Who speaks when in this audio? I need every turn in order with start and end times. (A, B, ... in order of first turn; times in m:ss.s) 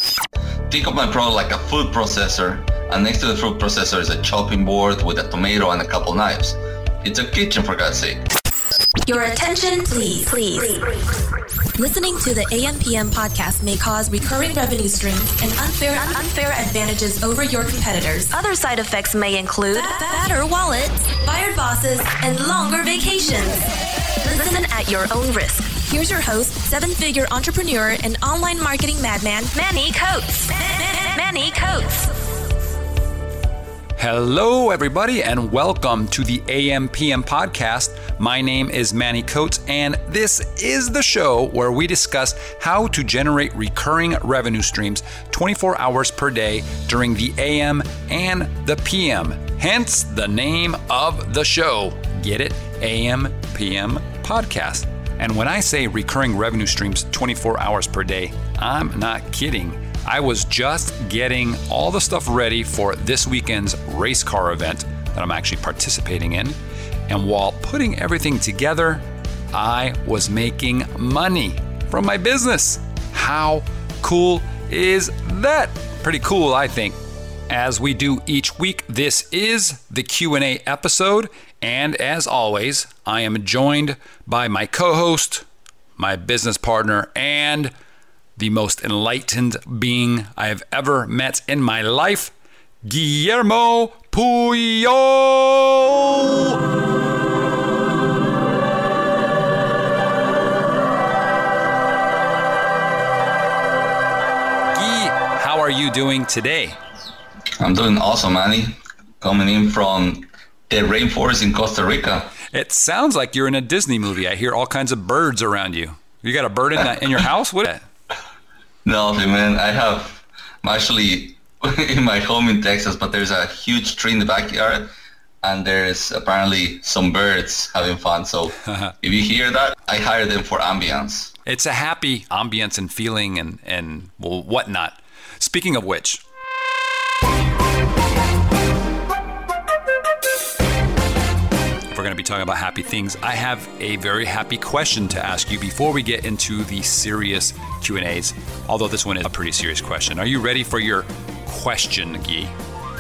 0:00.7-0:08.2 A
0:09.1-0:11.0 B
0:11.8-0:23.7 B
0:24.2-0:32.1 B
0:34.0-1:06.6 C
1:07.1-1:17.0 C
1:17.5-1:25.4 C
1:26.0-1:27.7 C
1:28.4-1:32.3 C
1:32.8-1:36.6 C
1:44.7-1:46.8 C
1:47.6-1:52.3 A
1:52.5-1:57.8 C
1:58.8-2:04.9 A
2:05.4-2:11.3 A
2:08.7-2:08.9 C
2:11.5-2:16.2 C
2:21.9-2:32.5 C